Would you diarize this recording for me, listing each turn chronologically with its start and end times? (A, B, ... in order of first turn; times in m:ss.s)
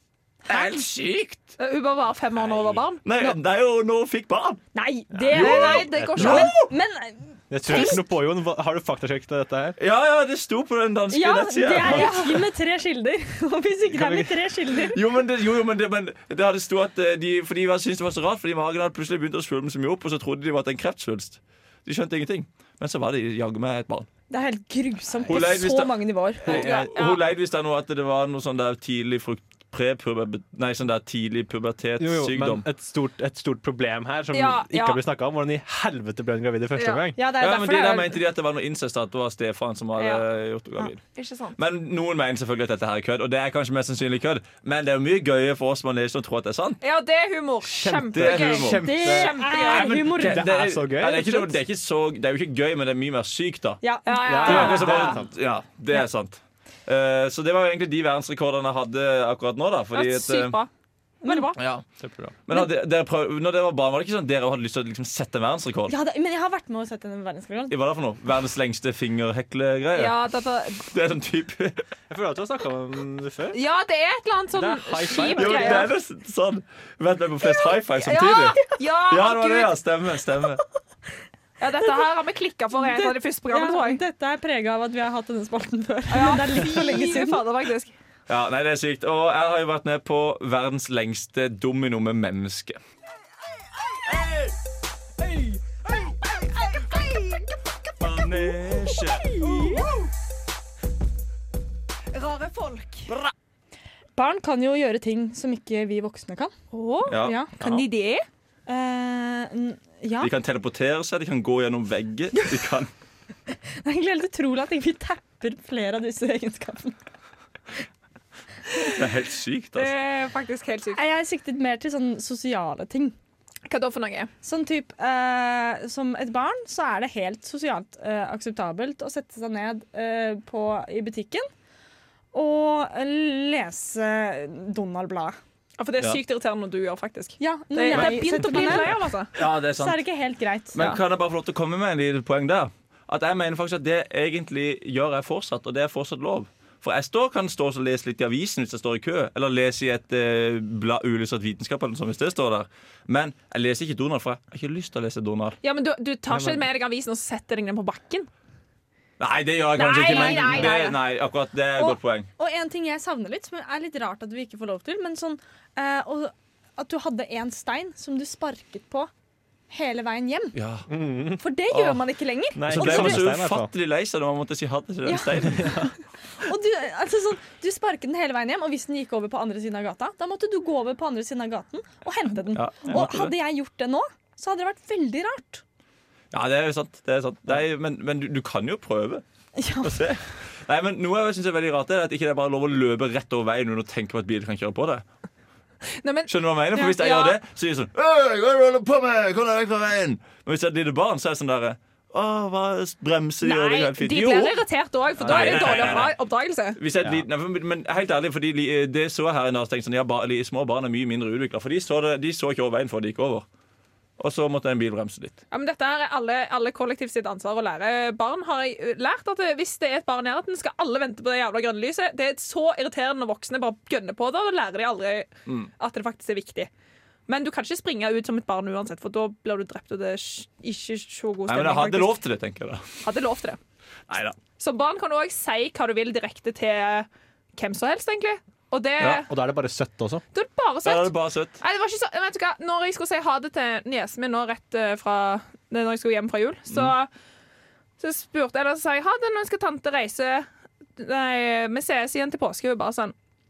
0:00.5-0:01.6 A
0:01.6-0:03.4 B
0:02.4-0:04.6 A
0:04.7-0:08.0 C
0:05.1-0:06.0 D
0:05.3-0:06.7 A
0:05.4-0:06.6 B
0:07.5-0:09.8 D
0:07.7-0:08.0 B
0:09.8-0:12.4 A
0:11.1-0:15.0 C
0:11.8-0:12.4 B
0:14.0-0:24.1 A
0:24.3-0:26.6 C
0:25.3-0:32.7 A
0:26.5-0:27.3 B
0:26.6-0:26.9 D
0:32.0-0:37.2 D
0:34.3-0:35.0 B
0:36.8-0:37.0 B
0:37.2-0:38.2 C
0:37.4-0:41.1 A
0:40.0-0:41.6 B
0:41.6-0:46.8 A
0:46.8-0:49.9 B
0:47.8-0:51.5 D
0:47.9-0:48.9 A
0:48.8-0:50.5 C
0:49.6-0:53.8 A
0:53.8-0:55.2 C
0:54.0-0:55.1 B
0:54.2-0:55.3 D
0:54.4-1:00.6 A
0:59.9-1:00.7 B
1:01.2-1:01.6 B
1:01.2-1:01.6 C
1:01.6-1:01.9 A
1:02.0-1:02.4 D
1:02.5-1:06.0 A
1:05.9-1:07.7 C
1:07.7-1:10.2 A
1:10.0-1:10.8 B
1:10.8-1:11.8 A
1:12.1-1:13.6 D
1:13.5-1:15.9 B
1:14.5-1:15.9 D
1:15.3-1:20.6 A
1:17.6-1:19.8 B
1:21.6-1:24.0 B
1:22.8-1:27.4 C
1:26.1-1:27.9 B
1:28.3-1:32.8 A
1:34.1-1:34.5 A
1:38.0-1:39.8 A
1:42.1-1:43.1 B
1:44.2-1:46.5 C
1:46.7-1:48.2 B
1:47.1-1:47.9 A
1:47.2-1:47.5 C
1:48.7-1:50.3 C
1:50.2-1:52.9 A
1:53.8-1:57.0 C
1:58.9-1:59.9 A
1:59.8-2:01.0 B
2:00.9-2:03.2 C
2:03.7-2:04.3 B
2:04.4-2:11.5 C
2:12.3-2:15.4 C
2:15.8-2:19.3 B
2:17.4-2:20.9 C
2:17.9-2:20.2 A
2:20.7-2:35.6 A
2:35.6-2:38.3 B
2:36.3-2:36.7 D
2:39.2-2:42.3 A
2:39.8-2:41.0 B
2:40.0-2:40.7 C
2:41.8-2:49.1 C
2:49.7-2:50.6 C
2:50.5-2:50.9 A
2:50.9-2:51.4 D
2:51.4-2:53.3 C
2:51.7-2:55.8 A
2:52.6-2:53.7 D
2:55.0-3:05.6 C
2:55.5-2:55.8 D
3:02.5-3:03.3 A
3:06.3-3:09.2 A
3:09.6-3:10.0 C
3:09.8-3:15.0 A
3:16.0-3:17.4 B
3:16.3-3:24.6 A
3:23.4-3:26.8 B
3:25.2-3:26.1 A
3:25.2-3:26.1 D
3:26.8-3:33.5 A
3:27.0-3:27.2 D
3:34.2-3:35.4 A
3:35.5-3:46.7 B
3:47.3-3:52.2 B
3:51.5-3:52.8 A
3:53.0-3:53.6 B
3:54.1-3:54.4 A
3:54.6-3:59.3 B
3:59.0-3:59.2 A
3:59.2-4:00.2 D
4:00.3-4:07.1 B
4:00.8-4:01.6 A
4:08.0-4:13.1 B